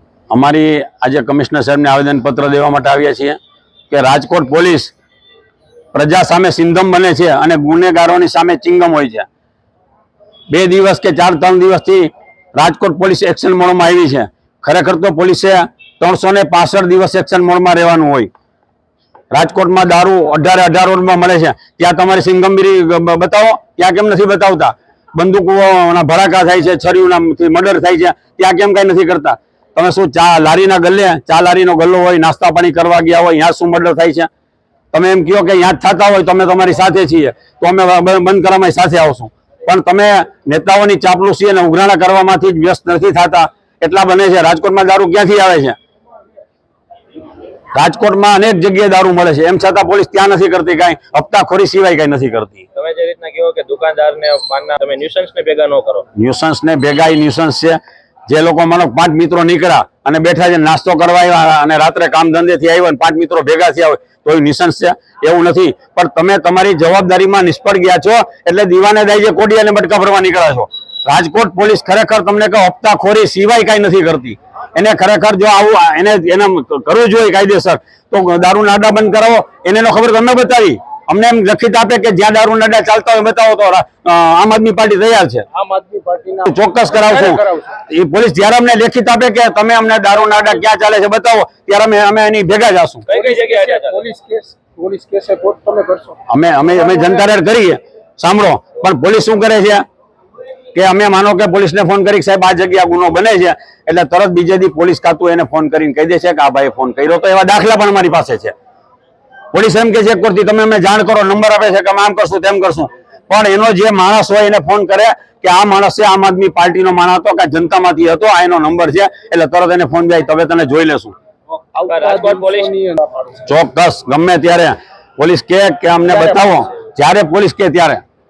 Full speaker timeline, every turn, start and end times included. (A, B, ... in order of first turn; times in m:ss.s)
0:00.3-0:03.4 A
0:03.9-0:04.9 A
0:05.9-0:09.3 A
0:10.5-0:18.3 A
0:19.3-0:34.3 A
0:34.9-0:45.8 A
0:47.8-0:52.6 A
0:52.8-0:56.1 B
0:56.2-1:25.5 A
1:25.5-1:27.8 C
1:26.5-1:33.1 A
1:33.1-1:34.0 B
1:33.1-1:36.2 C
1:36.3-1:39.8 A
1:36.7-1:37.3 C
1:40.7-1:48.5 A
1:49.5-2:01.2 A
2:01.8-2:03.5 C
2:01.9-2:02.7 B
2:03.5-2:08.0 A
2:06.1-2:06.7 C